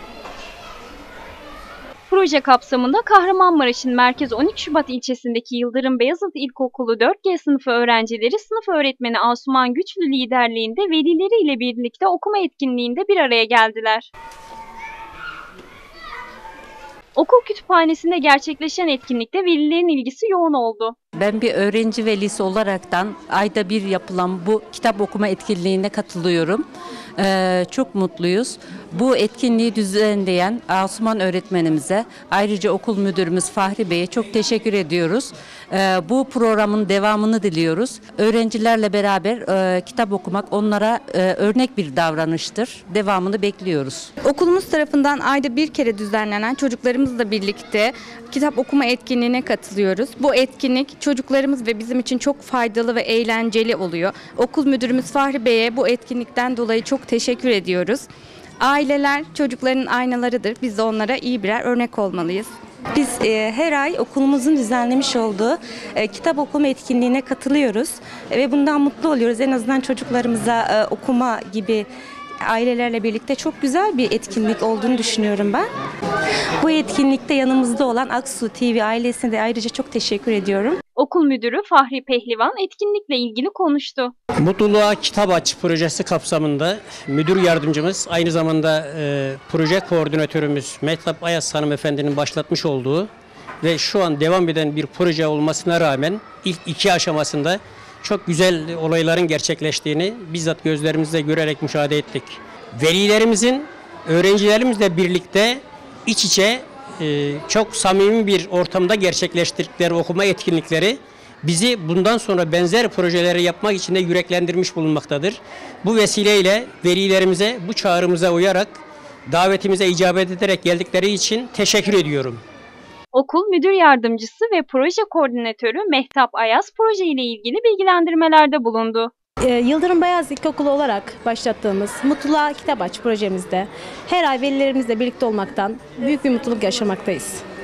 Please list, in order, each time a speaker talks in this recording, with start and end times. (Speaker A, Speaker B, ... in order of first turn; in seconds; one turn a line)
Speaker A: 2.1-14.1
Speaker A: 17.1-20.9
Speaker B: 21.1-26.6
Speaker B: 27.2-44.1
Speaker C: 44.2-58.1
Speaker C: 58.6-62.5
Speaker D: 62.9-71.9
Speaker D: 72.4-75.7
Speaker D: 76.6-80.8
Speaker A: 81.0-84.1
Speaker E: 84.4-93.1
Speaker E: 93.6-122.4
Speaker A: 123.1-129.1
Speaker F: 129.4-137.4